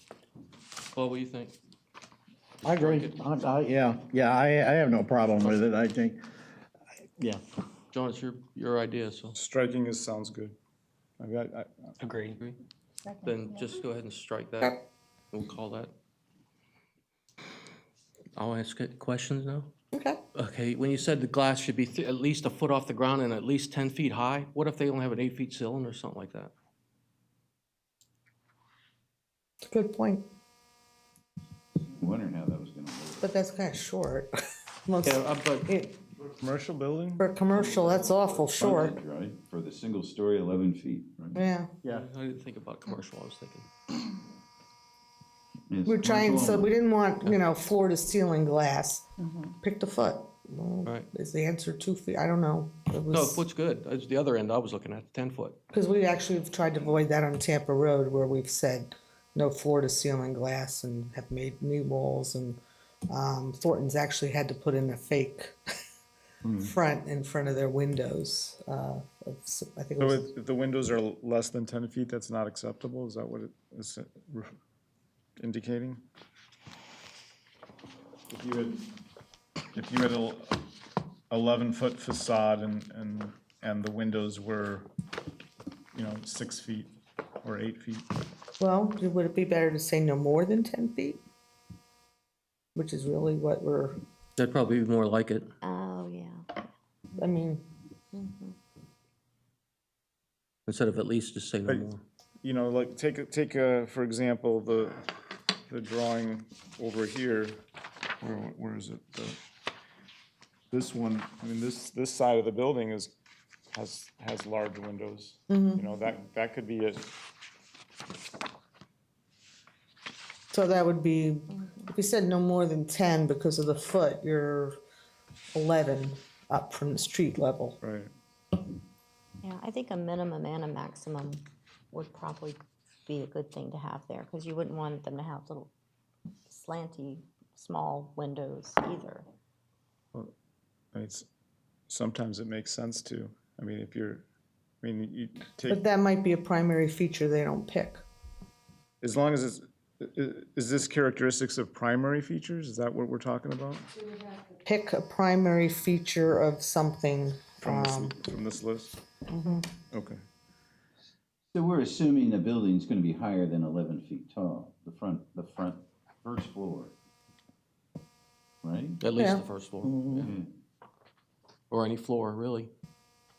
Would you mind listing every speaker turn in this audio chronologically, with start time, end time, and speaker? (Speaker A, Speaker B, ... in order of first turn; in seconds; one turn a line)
Speaker A: 0.9-1.5
Speaker A: 2.6-3.4
Speaker B: 2.6-6.2
Speaker A: 5.3-5.7
Speaker A: 7.9-9.4
Speaker C: 9.3-10.5
Speaker C: 11.2-11.9
Speaker A: 12.0-12.6
Speaker A: 13.2-14.8
Speaker A: 15.3-15.9
Speaker A: 18.3-19.7
Speaker D: 19.9-20.2
Speaker A: 20.3-26.5
Speaker D: 29.7-30.2
Speaker E: 31.9-33.3
Speaker D: 33.2-34.3
Speaker D: 34.9-36.0
Speaker A: 35.1-35.6
Speaker C: 36.3-37.3
Speaker D: 37.2-39.0
Speaker E: 37.7-41.4
Speaker D: 41.4-41.7
Speaker A: 41.9-43.7
Speaker E: 45.7-46.7
Speaker D: 45.8-53.5
Speaker A: 53.1-55.6
Speaker D: 55.7-65.6
Speaker D: 66.6-70.3
Speaker C: 70.0-74.5
Speaker C: 75.4-76.0
Speaker C: 78.3-78.8
Speaker C: 79.7-80.6
Speaker C: 81.3-84.9
Speaker C: 85.9-86.9
Speaker C: 87.4-88.1
Speaker D: 88.6-91.2
Speaker D: 92.7-94.0
Speaker A: 94.4-95.5
Speaker F: 95.6-96.7
Speaker D: 97.2-97.7
Speaker F: 98.1-98.5
Speaker A: 100.7-102.0
Speaker C: 101.7-101.9
Speaker C: 102.4-105.0
Speaker C: 105.7-107.6
Speaker C: 108.2-109.4
Speaker C: 110.7-113.1
Speaker C: 113.7-117.1
Speaker D: 115.5-115.8
Speaker D: 120.5-124.8
Speaker F: 121.6-121.9
Speaker D: 125.5-127.8
Speaker C: 127.8-128.1
Speaker F: 129.4-135.7
Speaker F: 136.5-139.2
Speaker C: 140.9-141.3
Speaker C: 141.9-144.2
Speaker C: 144.8-145.8
Speaker D: 145.7-148.0
Speaker C: 149.0-153.9
Speaker D: 154.6-158.2
Speaker C: 157.6-159.0
Speaker D: 159.3-159.7
Speaker C: 159.9-160.2
Speaker E: 161.5-166.9
Speaker E: 168.6-169.0
Speaker A: 169.0-170.3
Speaker D: 169.2-169.4
Speaker B: 169.8-170.2
Speaker E: 170.1-170.5
Speaker A: 171.7-172.7